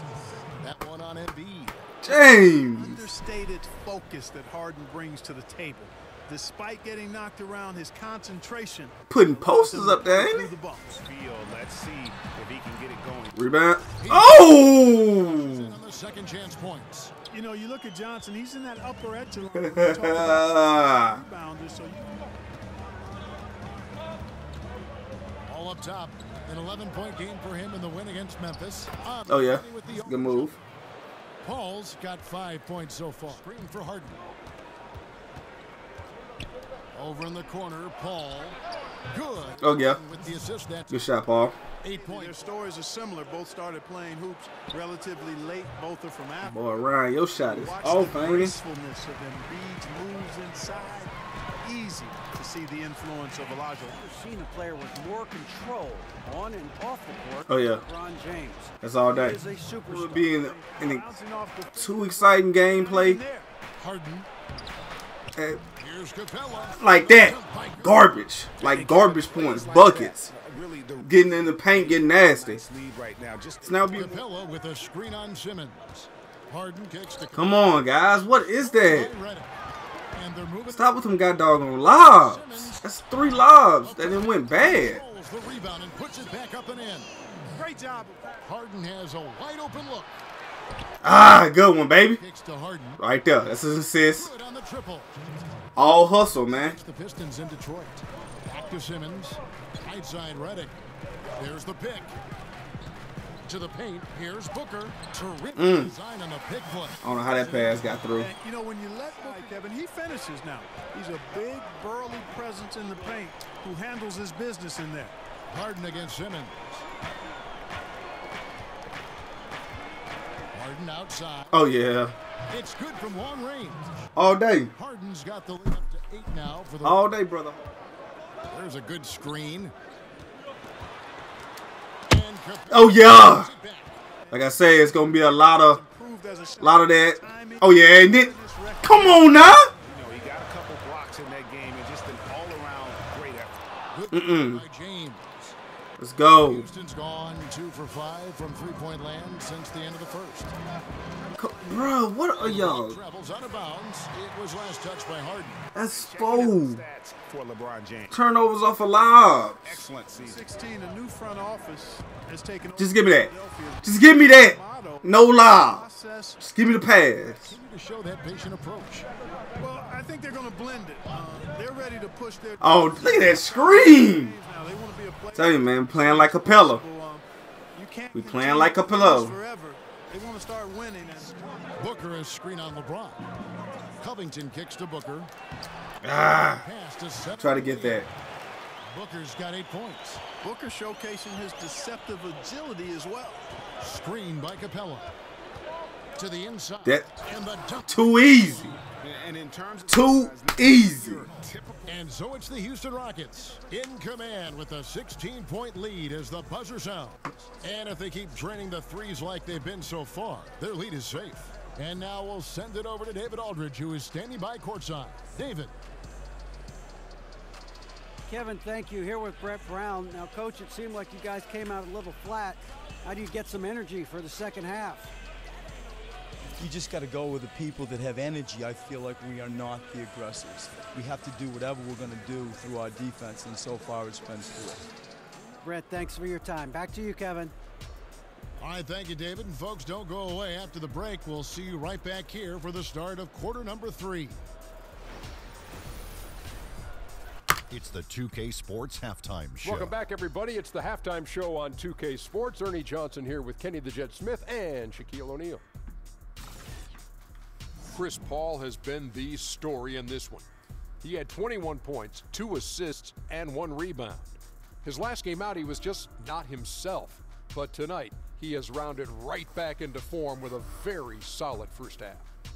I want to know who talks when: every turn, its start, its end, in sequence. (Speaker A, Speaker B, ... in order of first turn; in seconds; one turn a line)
Speaker A: 0.6-1.8
Speaker B: 2.0-3.0
Speaker C: 2.1-10.9
Speaker B: 9.1-10.5
Speaker D: 10.9-13.4
Speaker B: 13.3-15.8
Speaker A: 14.0-17.1
Speaker C: 17.3-22.2
Speaker B: 19.6-21.2
Speaker A: 25.5-30.6
Speaker B: 29.3-30.5
Speaker A: 31.4-34.2
Speaker A: 36.9-38.6
Speaker A: 39.1-41.1
Speaker B: 39.6-40.0
Speaker B: 40.9-41.5
Speaker A: 41.8-42.3
Speaker C: 42.0-46.6
Speaker B: 46.4-48.5
Speaker C: 47.4-54.0
Speaker E: 53.9-60.3
Speaker B: 57.5-57.8
Speaker B: 58.8-61.0
Speaker C: 60.3-63.5
Speaker B: 61.8-63.2
Speaker A: 63.8-64.3
Speaker A: 65.8-68.0
Speaker B: 66.8-70.3
Speaker D: 68.6-74.2
Speaker B: 71.0-72.6
Speaker B: 73.6-74.2
Speaker A: 73.9-78.1
Speaker B: 77.3-79.1
Speaker A: 78.6-79.5
Speaker A: 80.1-80.9
Speaker B: 80.7-85.0
Speaker A: 81.9-82.8
Speaker A: 83.8-87.1
Speaker C: 87.5-88.4
Speaker A: 88.4-90.2
Speaker B: 91.0-92.2
Speaker A: 92.1-93.0
Speaker B: 93.0-94.3
Speaker A: 94.1-95.1
Speaker B: 95.8-96.8
Speaker A: 96.5-100.8
Speaker A: 101.4-102.2
Speaker A: 103.4-107.8
Speaker B: 105.5-105.9
Speaker B: 107.0-108.3
Speaker C: 108.1-115.1
Speaker A: 115.5-116.8
Speaker A: 120.5-121.6
Speaker B: 121.5-122.1
Speaker A: 122.5-124.1
Speaker B: 124.2-124.7
Speaker A: 124.7-127.0
Speaker B: 126.8-127.6
Speaker A: 128.5-129.7
Speaker A: 132.1-134.0
Speaker B: 132.7-133.5
Speaker C: 134.2-139.6
Speaker B: 134.3-135.8
Speaker B: 136.6-138.3
Speaker B: 138.8-139.7
Speaker D: 139.8-143.6
Speaker A: 143.9-145.6
Speaker B: 144.1-144.6
Speaker B: 146.0-146.7
Speaker A: 146.4-150.5
Speaker B: 151.4-153.0
Speaker A: 152.4-155.6
Speaker B: 155.7-156.8
Speaker D: 155.9-158.2
Speaker B: 158.1-159.7
Speaker D: 159.6-160.6
Speaker C: 160.2-166.4
Speaker B: 162.8-163.3
Speaker B: 163.8-165.8
Speaker B: 166.4-167.5
Speaker A: 167.3-169.1
Speaker C: 169.6-177.2
Speaker B: 172.6-174.3
Speaker B: 175.3-176.8
Speaker C: 177.7-181.4
Speaker B: 178.1-179.3
Speaker A: 181.2-183.2
Speaker A: 184.0-185.3
Speaker B: 186.0-186.6
Speaker A: 186.5-188.1
Speaker B: 187.4-188.1
Speaker A: 188.9-190.2
Speaker C: 190.4-193.5
Speaker A: 193.8-195.1
Speaker A: 196.2-198.0
Speaker B: 196.8-197.1
Speaker B: 197.9-198.8
Speaker D: 199.0-202.0
Speaker B: 199.9-201.2
Speaker A: 201.8-215.7
Speaker E: 218.3-225.1
Speaker F: 226.6-234.9
Speaker E: 235.6-237.5
Speaker A: 238.6-244.4
Speaker G: 247.7-249.9
Speaker H: 249.6-255.6
Speaker H: 257.9-260.4
Speaker H: 261.0-272.2